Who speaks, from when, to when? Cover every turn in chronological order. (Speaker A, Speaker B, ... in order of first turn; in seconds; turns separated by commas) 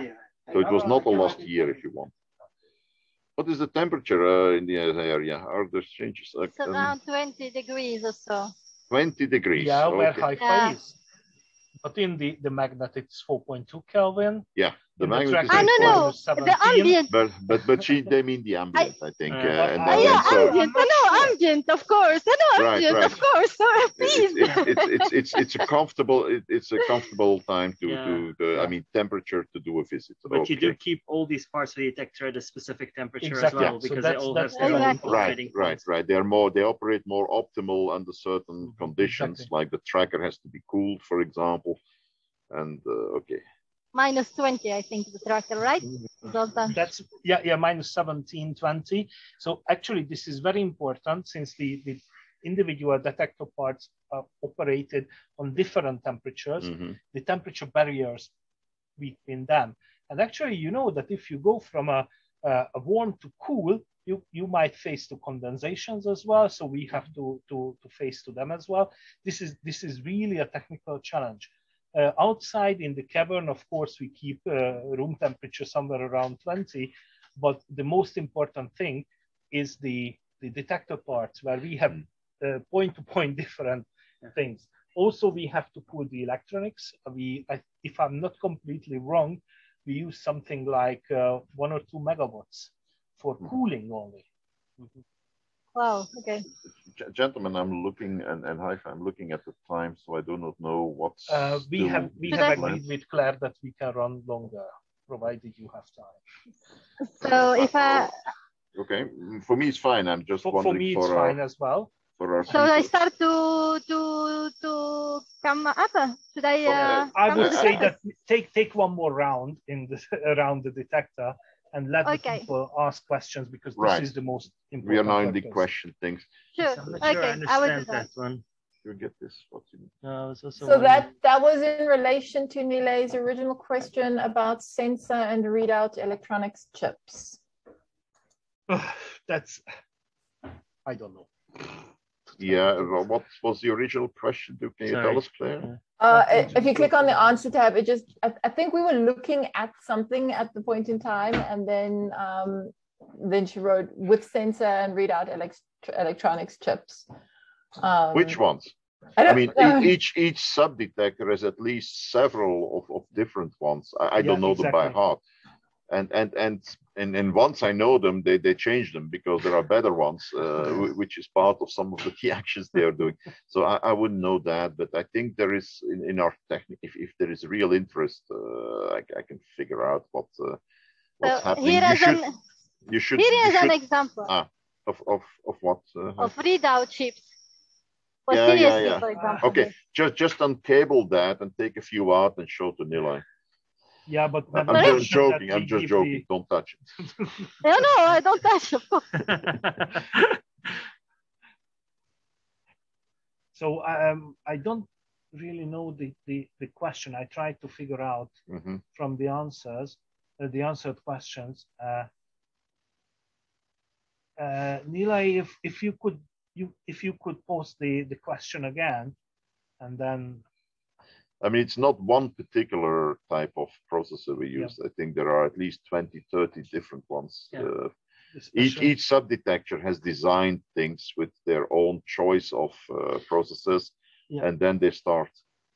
Speaker A: 0.5-2.1, Speaker A: 3.4-6.9, Speaker B: 6.6-8.5, Speaker A: 8.9-10.3, Speaker C: 9.6-11.0, Speaker B: 10.4-10.8, Speaker C: 11.8-14.5, Speaker A: 14.6-16.1, Speaker C: 15.0-17.0, Speaker B: 15.5-17.2, Speaker A: 17.1-20.6, Speaker D: 19.3-20.0, Speaker C: 19.6-21.3, Speaker B: 19.9-25.1, Speaker A: 22.5-23.2, Speaker A: 24.0-30.8, Speaker D: 27.9-28.3, Speaker D: 30.3-35.8, Speaker C: 33.2-35.3, Speaker B: 34.6-35.0, Speaker A: 35.0-41.8, Speaker C: 39.0-39.5, Speaker A: 42.5-43.4, Speaker B: 43.9-46.8, Speaker C: 46.7-58.3, Speaker A: 56.6-57.0, Speaker C: 59.0-94.2, Speaker B: 95.8-96.5, Speaker A: 96.8-102.8, Speaker C: 101.3-106.2, Speaker B: 102.3-102.6, Speaker B: 107.0-108.2, Speaker A: 107.2-108.1, Speaker A: 108.8-111.4, Speaker C: 110.4-111.9, Speaker A: 112.2-112.9, Speaker B: 112.5-118.0, Speaker A: 116.7-117.8, Speaker C: 116.8-125.6, Speaker B: 122.0-122.5, Speaker A: 123.8-124.1, Speaker A: 124.8-126.3, Speaker B: 126.6-128.1, Speaker D: 126.6-128.4, Speaker A: 128.8-129.9, Speaker D: 130.0-131.1, Speaker E: 130.6-137.4, Speaker C: 138.7-139.6, Speaker C: 140.8-141.3, Speaker A: 142.4-145.7, Speaker D: 144.9-145.8, Speaker E: 146.0-157.1, Speaker C: 146.1-146.5, Speaker E: 157.8-158.4, Speaker A: 158.1-165.2, Speaker E: 159.2-159.9, Speaker C: 164.2-165.0, Speaker A: 165.9-180.6, Speaker A: 181.2-182.2, Speaker B: 181.2-182.4, Speaker A: 182.9-186.3, Speaker B: 183.2-184.3, Speaker B: 186.2-187.3, Speaker B: 188.3-189.7, Speaker A: 188.3-193.2, Speaker C: 189.2-189.5, Speaker C: 194.1-196.2, Speaker A: 194.5-196.8, Speaker C: 197.2-197.5, Speaker B: 197.6-199.2, Speaker C: 203.5-208.3, Speaker A: 208.5-208.8, Speaker C: 208.9-212.1, Speaker C: 214.4-219.2, Speaker C: 219.8-220.4, Speaker A: 221.4-227.9, Speaker C: 228.3-228.9, Speaker A: 228.5-235.4